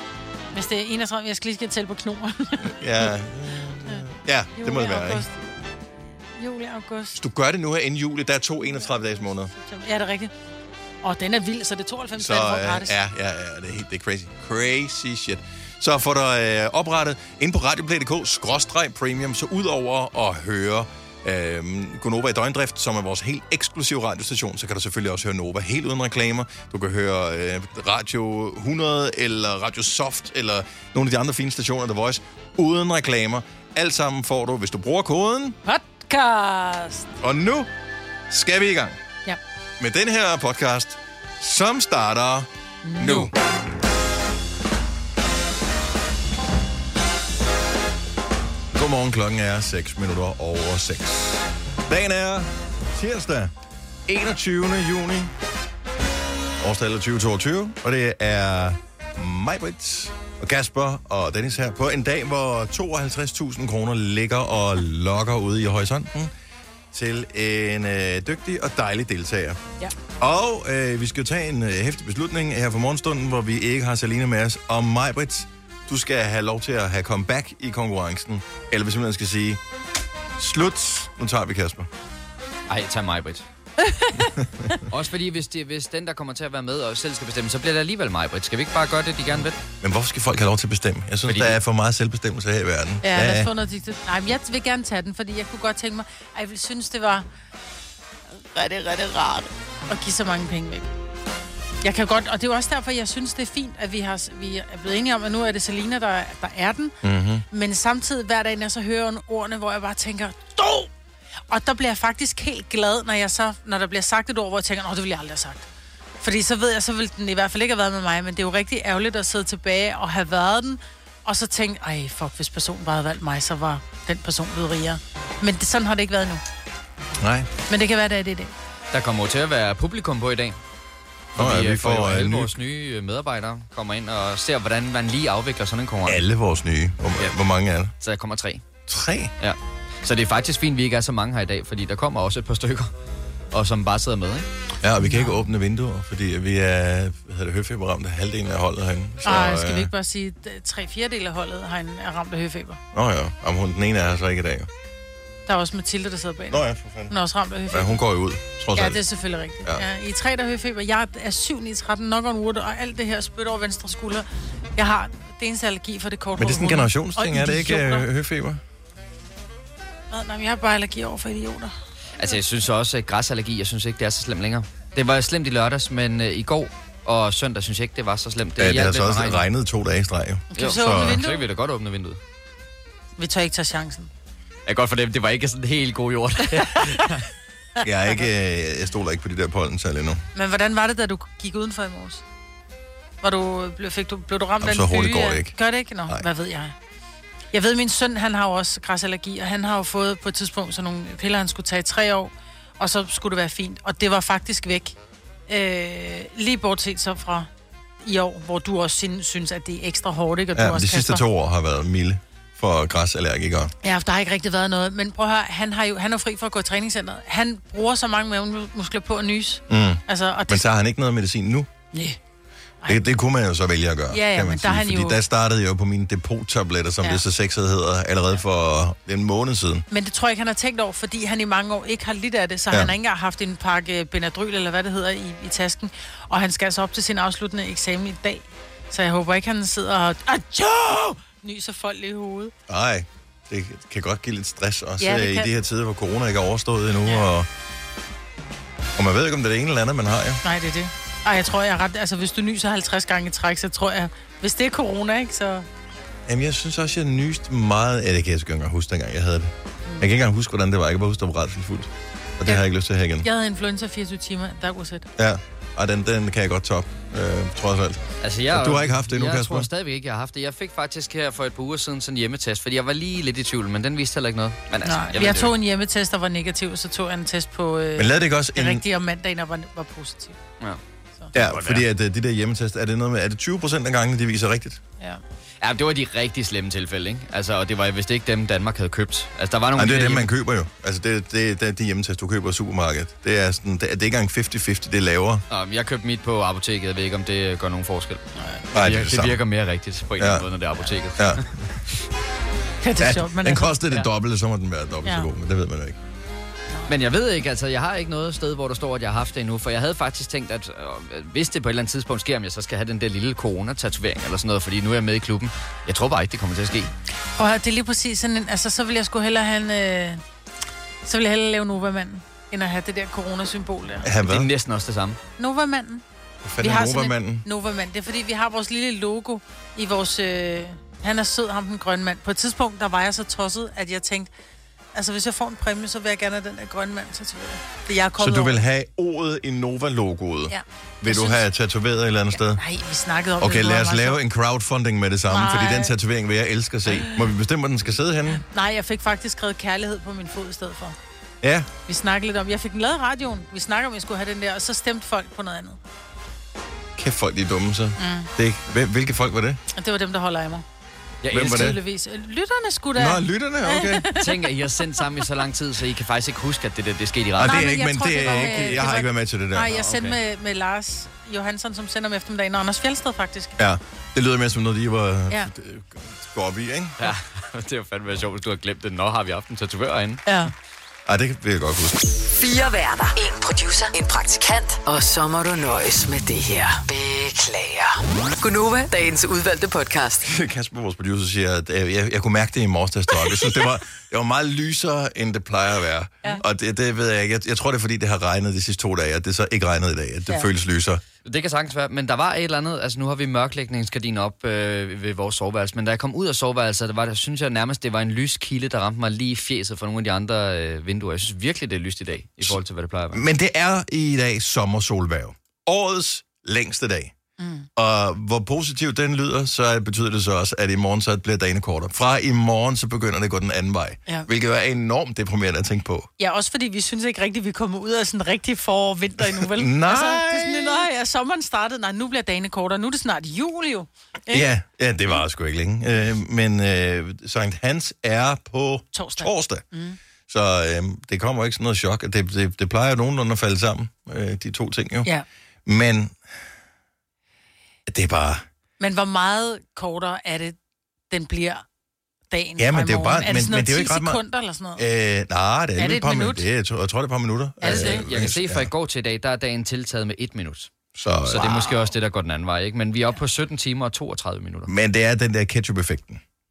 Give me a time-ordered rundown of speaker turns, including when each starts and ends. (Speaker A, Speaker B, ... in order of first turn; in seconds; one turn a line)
Speaker A: 0.5-3.1
Speaker B: 2.6-5.2
Speaker A: 4.6-5.5
Speaker A: 6.4-7.2
Speaker B: 7.1-9.5
Speaker A: 8.7-10.3
Speaker A: 11.0-13.0
Speaker B: 12.2-35.6
Speaker A: 35.6-37.1
Speaker B: 37.2-37.7
Speaker B: 38.3-39.0
Speaker B: 39.8-43.4
Speaker A: 42.9-43.3
Speaker B: 48.7-53.5
Speaker B: 54.1-55.3
Speaker B: 56.6-66.3
Speaker B: 66.9-69.6
Speaker B: 70.2-79.6
Speaker B: 80.4-81.9
Speaker C: 82.7-83.5
Speaker A: 83.8-84.4
Speaker C: 84.9-89.6
Speaker B: 89.8-93.5
Speaker C: 91.3-91.6
Speaker A: 93.0-97.3
Speaker A: 98.3-100.9
Speaker A: 101.8-107.0
Speaker B: 107.0-107.5
Speaker A: 107.5-110.9
Speaker A: 111.5-115.7
Speaker A: 116.2-126.4
Speaker B: 127.2-127.5
Speaker A: 127.7-128.5
Speaker C: 128.9-130.6
Speaker B: 131.4-132.5
Speaker C: 131.4-136.2
Speaker B: 136.1-137.9
Speaker C: 138.0-138.6
Speaker B: 138.9-139.3
Speaker C: 139.4-142.9
Speaker C: 143.5-144.5
Speaker B: 144.8-149.9
Speaker A: 145.0-145.4
Speaker A: 149.2-152.8
Speaker B: 152.9-154.7
Speaker A: 155.5-158.0
Speaker B: 156.5-157.1
Speaker B: 157.7-159.0
Speaker A: 158.8-168.1
Speaker B: 166.4-168.6
Speaker A: 170.1-171.7
Speaker C: 172.2-179.4
Speaker B: 178.6-181.2
Speaker A: 180.5-181.4
Speaker C: 180.6-182.2
Speaker A: 183.2-184.1
Speaker C: 184.7-187.3
Speaker B: 187.8-190.2
Speaker A: 190.3-192.2
Speaker A: 193.2-196.7
Speaker B: 194.6-195.6
Speaker A: 197.5-205.0
Speaker A: 205.5-207.5
Speaker A: 208.0-211.2
Speaker B: 210.6-213.7
Speaker A: 213.8-220.6
Speaker B: 219.7-221.7
Speaker A: 221.9-222.2
Speaker B: 222.9-229.8
Speaker A: 224.1-225.2
Speaker A: 229.9-242.5
Speaker B: 242.7-247.5
Speaker A: 245.0-245.5
Speaker B: 248.9-250.4
Speaker A: 250.4-255.7
Speaker B: 256.3-263.3
Speaker A: 263.2-265.1
Speaker B: 265.2-268.0
Speaker C: 268.2-275.5
Speaker B: 268.5-269.7
Speaker A: 274.9-280.4
Speaker B: 278.0-278.9
Speaker B: 281.3-284.8
Speaker C: 281.4-281.9
Speaker C: 285.6-290.3
Speaker B: 289.8-295.4
Speaker C: 295.5-298.2
Speaker B: 298.7-299.4
Speaker C: 298.8-301.6
Speaker B: 300.2-300.5
Speaker B: 301.2-301.4
Speaker A: 302.8-303.8
Speaker B: 303.0-306.0
Speaker C: 306.9-316.9
Speaker A: 317.4-320.2
Speaker A: 321.1-324.1
Speaker B: 324.0-324.5
Speaker C: 324.2-325.2
Speaker A: 325.4-326.0
Speaker B: 326.4-327.4
Speaker A: 326.6-334.3
Speaker A: 334.9-338.6
Speaker B: 338.2-342.6
Speaker A: 340.5-341.4
Speaker A: 342.4-344.2
Speaker B: 343.4-348.4
Speaker A: 345.3-345.9
Speaker A: 348.3-351.0
Speaker B: 351.4-351.7
Speaker A: 351.9-355.8
Speaker B: 357.0-359.6
Speaker A: 358.0-358.3
Speaker A: 359.7-360.6
Speaker C: 361.2-361.7
Speaker B: 361.3-361.8
Speaker A: 361.4-364.2
Speaker B: 363.0-364.1
Speaker C: 364.2-368.9
Speaker B: 367.4-369.8
Speaker A: 367.4-373.6
Speaker C: 369.8-370.2
Speaker B: 373.6-377.1
Speaker C: 377.0-380.2
Speaker A: 380.3-380.5
Speaker B: 381.1-382.2
Speaker D: 382.4-390.3
Speaker B: 390.2-401.0
Speaker C: 401.2-413.2
Speaker B: 413.1-417.1
Speaker A: 417.4-417.7
Speaker B: 417.8-426.1
Speaker A: 426.2-434.5
Speaker B: 429.4-430.9
Speaker B: 434.3-439.6
Speaker A: 438.9-440.0
Speaker B: 440.3-445.1
Speaker B: 445.7-446.2
Speaker B: 447.9-448.4
Speaker A: 448.8-450.6
Speaker A: 451.1-451.6
Speaker A: 452.3-454.8
Speaker B: 452.6-454.2
Speaker B: 454.8-458.7
Speaker A: 455.8-456.4
Speaker A: 457.6-458.1
Speaker C: 457.7-460.7
Speaker B: 461.0-461.6
Speaker C: 461.3-464.7
Speaker A: 461.4-461.8
Speaker B: 464.7-466.2